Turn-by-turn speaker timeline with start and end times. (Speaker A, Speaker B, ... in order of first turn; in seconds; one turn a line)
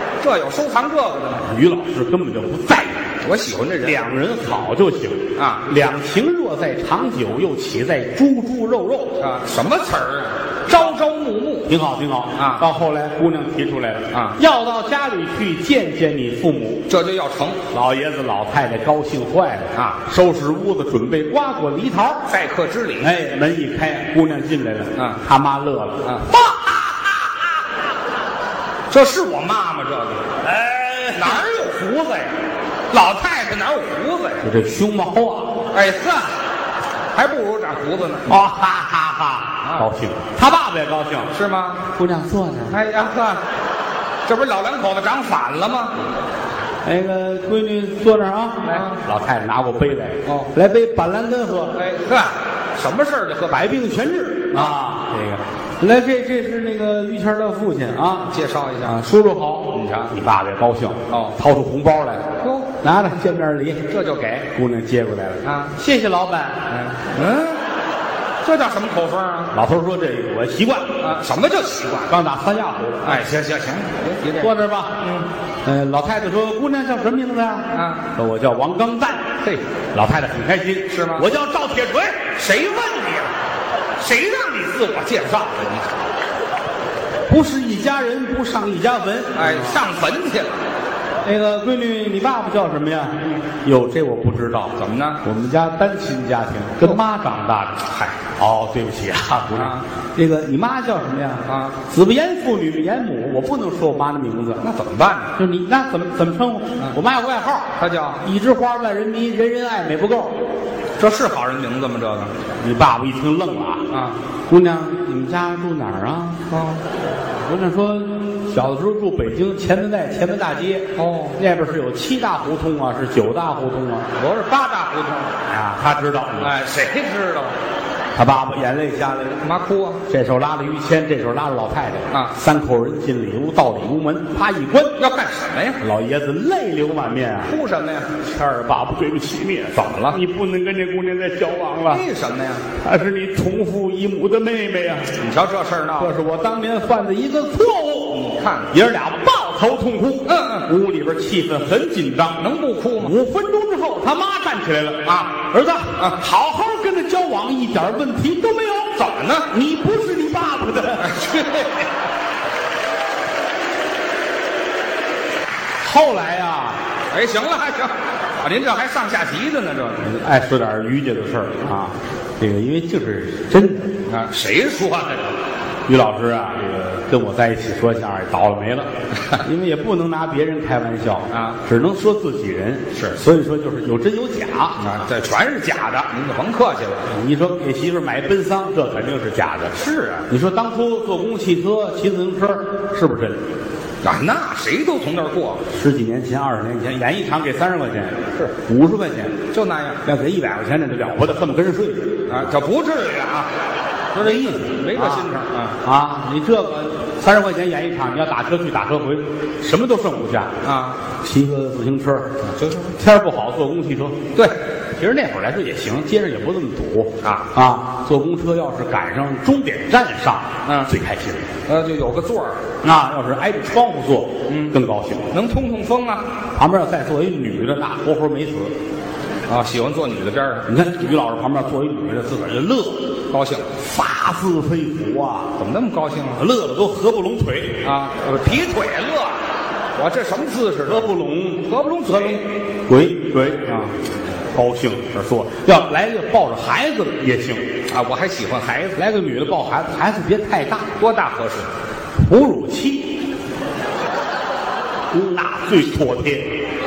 Speaker A: 0.2-1.4
Speaker B: 1.4-3.0
Speaker A: 3.2-4.0
Speaker B: 3.8-9.2
Speaker A: 5.4-5.7
Speaker A: 9.2-11.7
Speaker B: 11.7-16.9
Speaker A: 12.4-12.7
Speaker A: 14.1-14.4
Speaker A: 16.9-17.6
Speaker B: 17.7-22.3
Speaker A: 19.7-20.0
Speaker A: 22.3-23.1
Speaker B: 23.0-26.9
Speaker A: 28.9-30.3
Speaker B: 30.4-31.4
Speaker A: 31.1-32.3
Speaker A: 32.9-34.4
Speaker B: 34.4-35.6
Speaker A: 35.7-36.3
Speaker A: 37.1-38.4
Speaker B: 38.3-41.3
Speaker A: 41.3-41.8
Speaker B: 41.9-42.8
Speaker A: 42.7-43.4
Speaker A: 44.3-46.0
Speaker B: 46.9-51.8
Speaker A: 48.6-49.0
Speaker A: 51.8-53.7
Speaker B: 53.5-62.3
Speaker A: 58.3-59.0
Speaker A: 59.7-60.1
Speaker A: 61.1-61.4
Speaker A: 62.4-62.7
Speaker B: 62.8-63.9
Speaker A: 63.9-64.5
Speaker B: 64.5-66.6
Speaker A: 65.4-65.7
Speaker A: 66.7-67.6
Speaker A: 68.4-69.5
Speaker B: 69.5-71.0
Speaker A: 71.0-72.1
Speaker B: 72.1-73.2
Speaker A: 73.0-75.3
Speaker B: 74.4-75.0
Speaker B: 75.7-79.3
Speaker A: 77.7-78.0
Speaker B: 79.9-82.2
Speaker A: 80.9-81.3
Speaker A: 82.4-83.3
Speaker A: 84.0-86.0
Speaker B: 87.3-89.8
Speaker A: 89.3-90.6
Speaker B: 91.2-104.6
Speaker A: 94.8-95.2
Speaker A: 97.9-98.2
Speaker A: 99.6-99.8
Speaker A: 101.5-101.8
Speaker A: 104.6-105.3
Speaker B: 105.4-110.4
Speaker A: 107.8-108.2
Speaker A: 111.0-112.3
Speaker B: 112.6-113.9
Speaker A: 113.9-114.2
Speaker B: 114.5-116.4
Speaker A: 116.5-116.8
Speaker B: 117.4-124.1
Speaker A: 121.0-121.4
Speaker A: 124.2-125.3
Speaker B: 125.5-126.6
Speaker A: 126.4-127.5
Speaker B: 128.2-129.4
Speaker A: 129.4-130.0
Speaker B: 130.1-135.0
Speaker A: 135.0-135.8
Speaker B: 135.8-137.5
Speaker A: 137.4-138.1
Speaker B: 138.2-142.1
Speaker A: 139.8-140.2
Speaker A: 141.9-142.7
Speaker B: 142.8-145.2
Speaker A: 145.2-146.1
Speaker B: 146.0-152.4
Speaker A: 148.1-148.7
Speaker A: 150.3-150.7
Speaker A: 152.4-153.1
Speaker B: 153.0-158.9
Speaker A: 155.1-155.4
Speaker A: 159.0-159.5
Speaker B: 159.5-161.1
Speaker A: 161.0-161.9
Speaker B: 165.8-166.8
Speaker A: 167.1-170.0
Speaker B: 170.0-173.9
Speaker A: 174.1-175.3
Speaker B: 175.9-184.8
Speaker A: 181.3-181.6
Speaker A: 184.8-187.1
Speaker B: 187.1-189.8
Speaker A: 189.7-190.3
Speaker B: 190.3-193.4
Speaker A: 194.0-195.6
Speaker B: 195.7-199.4
Speaker A: 199.5-200.0
Speaker B: 200.0-202.4
Speaker A: 202.3-203.5
Speaker A: 204.2-205.8
Speaker B: 204.2-210.6
Speaker A: 210.6-211.0
Speaker B: 211.2-212.3
Speaker A: 212.4-212.9
Speaker B: 213.0-214.3
Speaker B: 215.0-221.4
Speaker A: 217.2-217.5
Speaker A: 220.7-220.9
Speaker A: 221.7-222.6
Speaker B: 222.8-225.3
Speaker A: 224.5-224.8
Speaker A: 225.3-226.3
Speaker B: 226.5-228.7
Speaker A: 229.5-230.7
Speaker B: 230.7-233.1
Speaker A: 233.3-233.7
Speaker B: 233.8-235.5
Speaker A: 235.6-236.4
Speaker B: 236.4-237.8
Speaker A: 237.8-239.4
Speaker A: 240.0-242.4
Speaker B: 240.8-241.7
Speaker B: 242.9-243.9
Speaker B: 244.5-247.7
Speaker A: 247.9-249.0
Speaker B: 249.0-251.0
Speaker A: 251.0-251.7
Speaker B: 252.2-253.2
Speaker B: 255.1-256.6